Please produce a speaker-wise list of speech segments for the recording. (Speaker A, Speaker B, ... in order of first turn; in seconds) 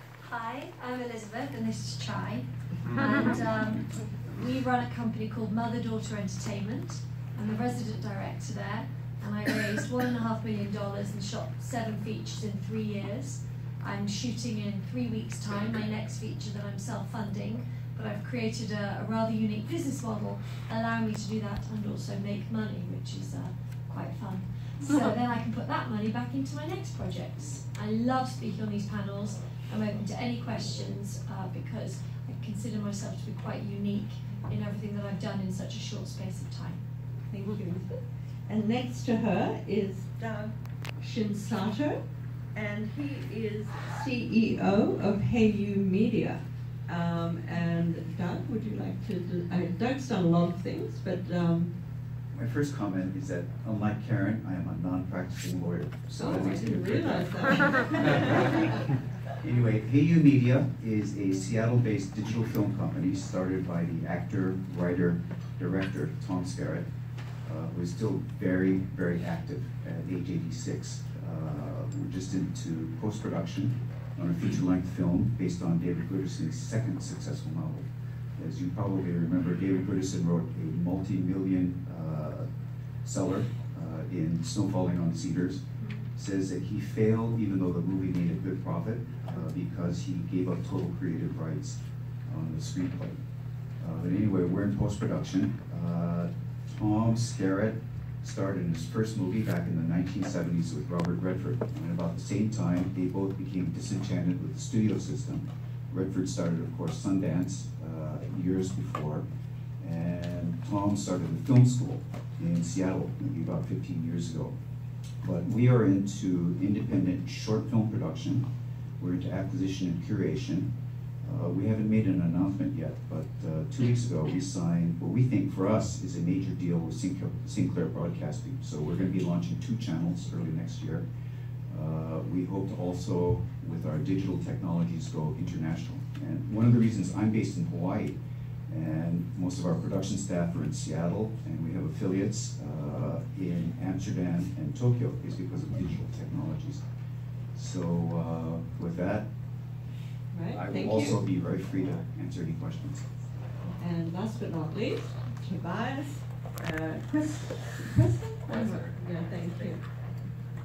Speaker A: 0.2-36.8
Speaker B: 37.3-42.0, 42.5-51.7, 56.2-58.8, 150.3-151.2, 153.8-160.0
Speaker C: 52.3-58.6, 59.4-66.8, 67.4-77.8, 78.4-82.5, 83.0-93.2, 93.8-109.2, 109.8-114.5, 115.2-118.4, 119.0-120.7, 121.2-131.0, 131.7-138.2, 138.7-146.8, 147.5-149.3, 150.5-153.0